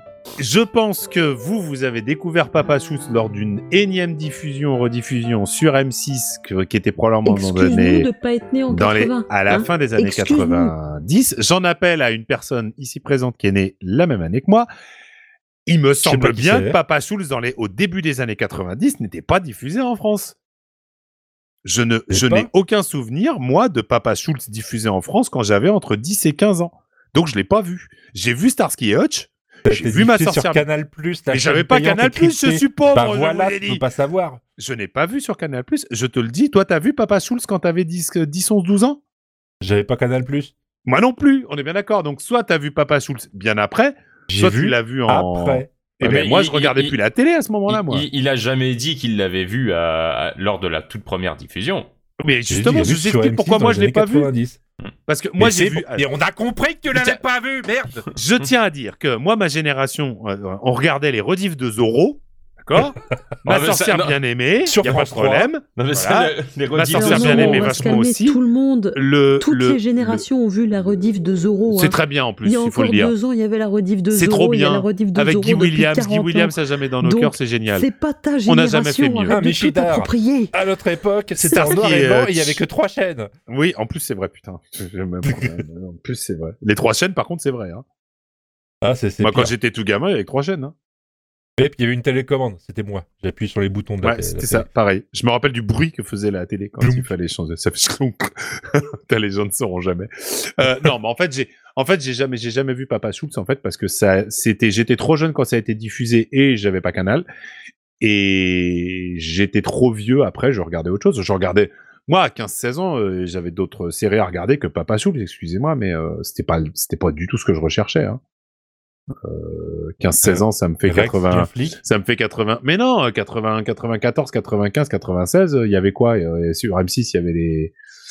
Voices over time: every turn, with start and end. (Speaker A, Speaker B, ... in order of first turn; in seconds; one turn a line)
Speaker A: 0.4-8.1
Speaker B: 7.2-10.7
Speaker A: 8.7-14.7
Speaker A: 15.7-20.4
Speaker C: 16.0-16.8
Speaker A: 21.6-30.6
Speaker C: 22.1-22.5
Speaker C: 29.6-34.4
Speaker A: 31.3-33.8
Speaker A: 34.6-39.0
Speaker C: 39.6-40.5
Speaker A: 40.8-48.0
Speaker C: 44.3-45.7
Speaker D: 46.0-47.0
Speaker D: 47.7-51.9
Speaker A: 52.2-54.3
Speaker C: 52.5-54.6
Speaker A: 55.1-56.0
Speaker C: 55.4-58.1
Speaker A: 58.1-68.4
Speaker D: 63.5-64.2
Speaker C: 64.6-65.5
Speaker D: 65.8-68.0
Speaker B: 66.9-80.5
Speaker A: 68.9-70.2
Speaker A: 71.7-73.1
Speaker A: 74.1-77.9
Speaker A: 78.5-79.4
Speaker C: 79.3-83.3
Speaker A: 81.4-82.6
Speaker A: 83.5-87.8
Speaker C: 85.2-85.6
Speaker C: 88.8-89.5
Speaker A: 89.2-90.7
Speaker C: 91.6-94.7
Speaker A: 94.0-107.2
Speaker C: 96.8-97.1
Speaker A: 108.0-118.2
Speaker A: 119.2-127.7
Speaker C: 120.2-121.8